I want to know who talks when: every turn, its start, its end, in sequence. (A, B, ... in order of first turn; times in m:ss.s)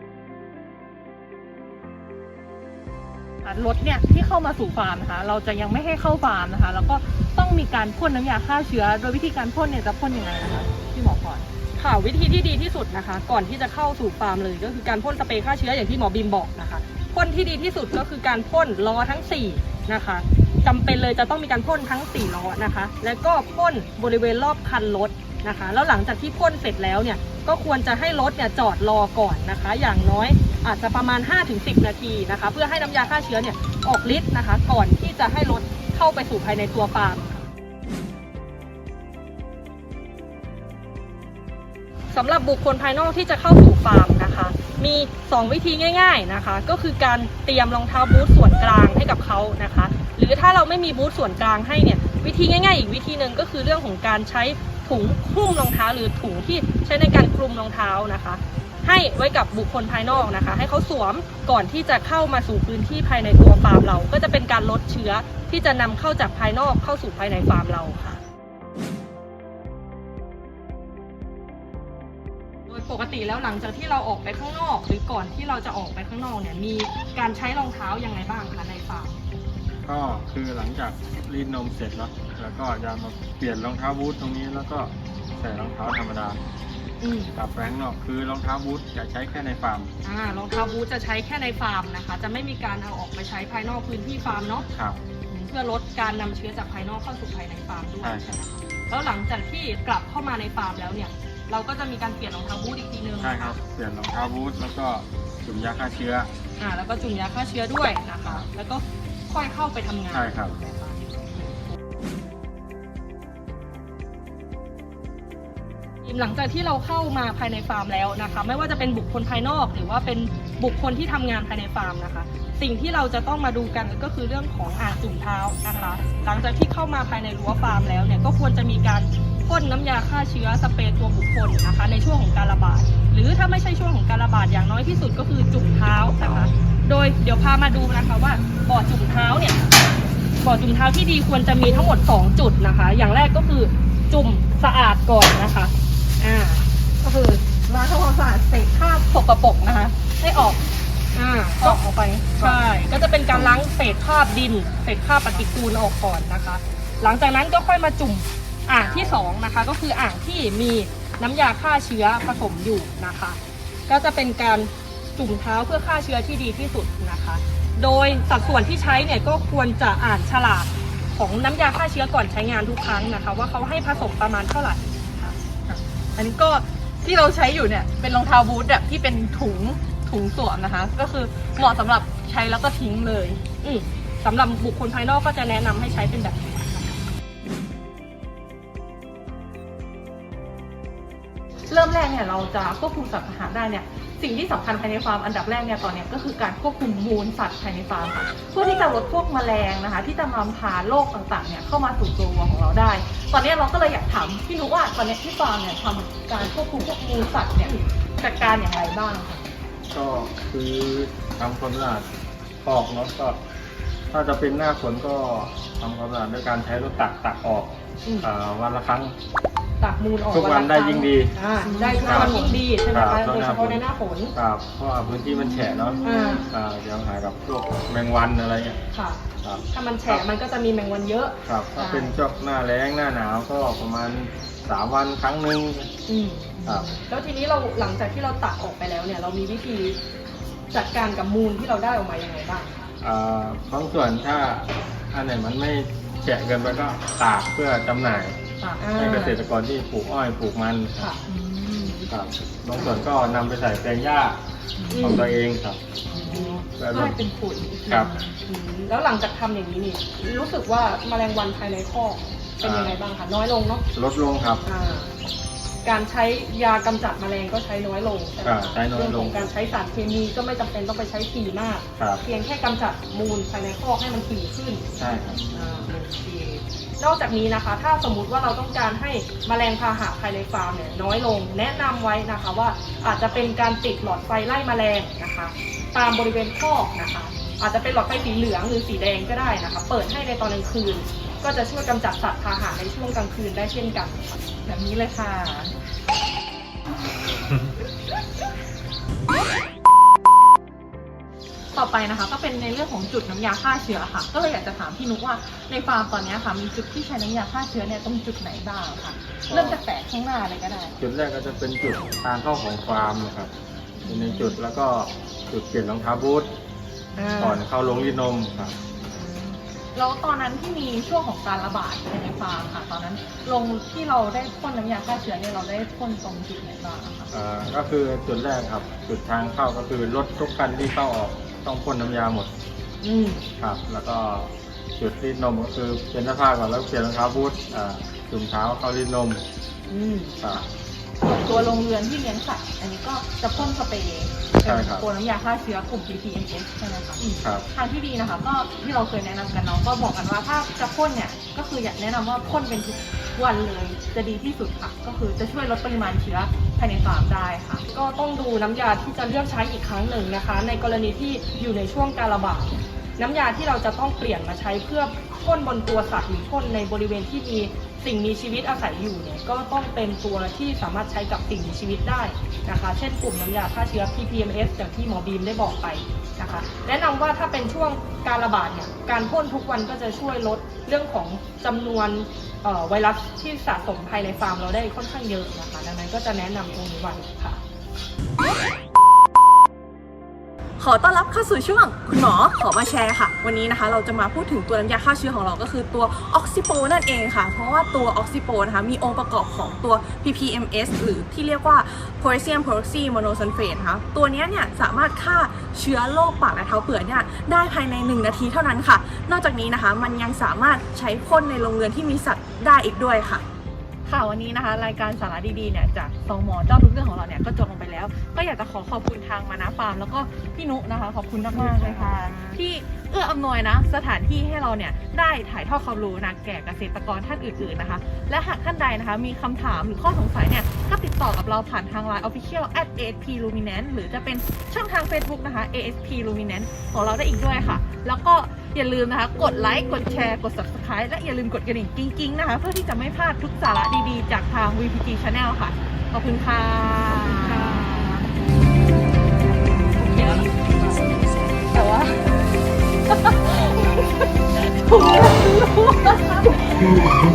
0:03.4-0:11.5 A
0:11.8-0:37.4 B
0:42.1-1:08.2 B
1:12.7-1:19.2 B
1:19.8-1:26.4 C
1:27.0-1:27.3 B
1:27.3-1:29.9 C
1:30.0-1:34.6 B
1:34.7-1:35.0 C
1:35.3-1:43.6 B
1:38.0-1:38.4 C
1:43.2-1:46.3 C
1:46.6-1:51.6 B
1:50.1-1:50.6 C
1:56.0-2:19.7 B
2:20.4-2:26.6 B
2:27.0-2:30.5 A
2:31.1-2:55.4 B
2:55.7-3:03.4 A
3:03.6-3:07.0 B
3:11.7-3:29.5 A
3:29.9-3:32.1 C
3:32.6-3:33.4 C
3:34.1-3:39.1 C
3:39.8-3:44.3 B
3:40.3-3:41.4 C
3:41.6-3:42.6 A
3:42.0-3:48.8 C
3:46.0-3:46.5 B
3:48.9-3:49.2 B
3:49.4-3:50.2 C
3:49.7-3:51.4 B
3:51.4-3:55.9 C
3:51.8-3:52.2 A
3:56.1-4:00.0 B
3:56.6-3:57.0 C
4:00.7-4:02.8 B
4:03.0-4:08.4 C
4:08.6-4:09.0 A
4:08.8-4:09.4 B
4:08.9-4:11.1 C
4:11.2-4:12.1 A
4:12.1-4:14.4 C
4:14.8-4:15.3 A
4:14.9-4:15.3 B
4:14.9-4:15.8 C
4:16.1-4:18.3 A
4:16.2-4:16.6 B
4:16.8-4:17.2 C
4:18.4-4:23.8 B
4:22.6-4:23.0 C
4:23.9-4:24.6 C
4:24.6-4:25.1 B
4:25.8-4:34.8 B
4:28.4-4:29.5 C
4:32.0-4:32.2 C
4:35.0-4:35.4 C
4:35.5-4:54.2 B
4:54.6-4:55.7 A
5:01.7-5:11.0 A
5:09.5-5:09.8 C
5:11.0-5:13.5 C
5:14.0-5:16.5 C
5:17.2-5:17.6 B
5:17.4-5:18.8 C
5:19.2-5:27.3 A
5:27.3-5:32.5 C
5:33.0-5:33.5 B
5:33.6-5:39.4 C
5:39.9-5:40.6 B
5:41.2-5:57.8 A
5:44.6-5:45.0 C
5:57.9-6:27.6 B
6:30.8-6:53.4 A
6:54.0-7:28.2 A
7:01.5-7:02.6 B
7:27.1-7:28.3 B
7:29.9-7:31.2 B
7:31.7-7:32.2 A
7:33.1-7:36.6 A